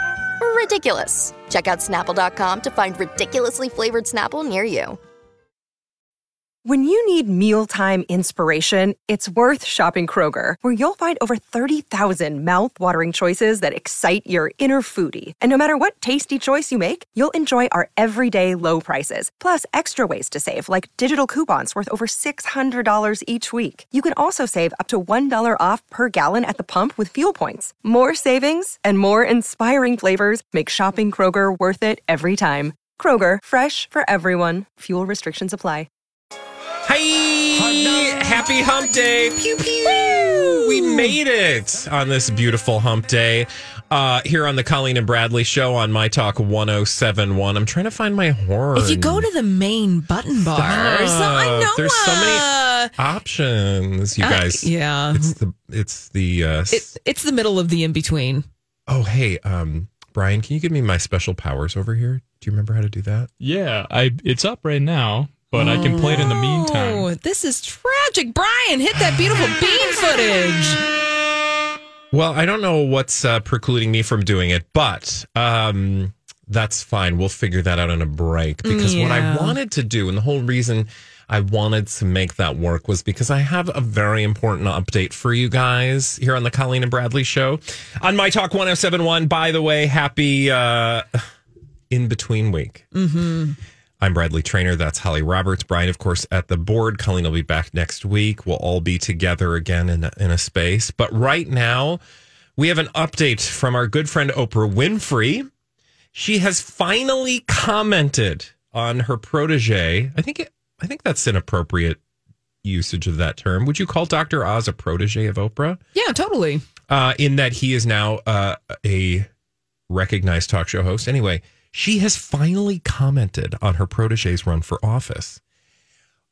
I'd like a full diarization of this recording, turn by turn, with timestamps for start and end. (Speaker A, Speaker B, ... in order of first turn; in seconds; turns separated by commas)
Speaker A: 0.4-5.0, Speaker B: 6.7-35.9, Speaker C: 36.9-49.3, Speaker D: 39.7-41.2, Speaker D: 48.8-52.9, Speaker C: 50.5-56.9, Speaker D: 54.2-55.4, Speaker D: 56.7-58.5, Speaker C: 58.9-63.3, Speaker E: 63.4-67.1, Speaker D: 65.5-70.8, Speaker C: 65.9-66.3, Speaker C: 72.1-91.3, Speaker D: 78.7-79.6, Speaker C: 91.9-92.9, Speaker D: 92.9-93.6, Speaker C: 94.0-102.0, Speaker C: 102.6-105.5, Speaker C: 106.1-112.0, Speaker C: 112.6-115.8, Speaker D: 115.9-116.6, Speaker C: 116.9-119.3, Speaker C: 119.9-125.4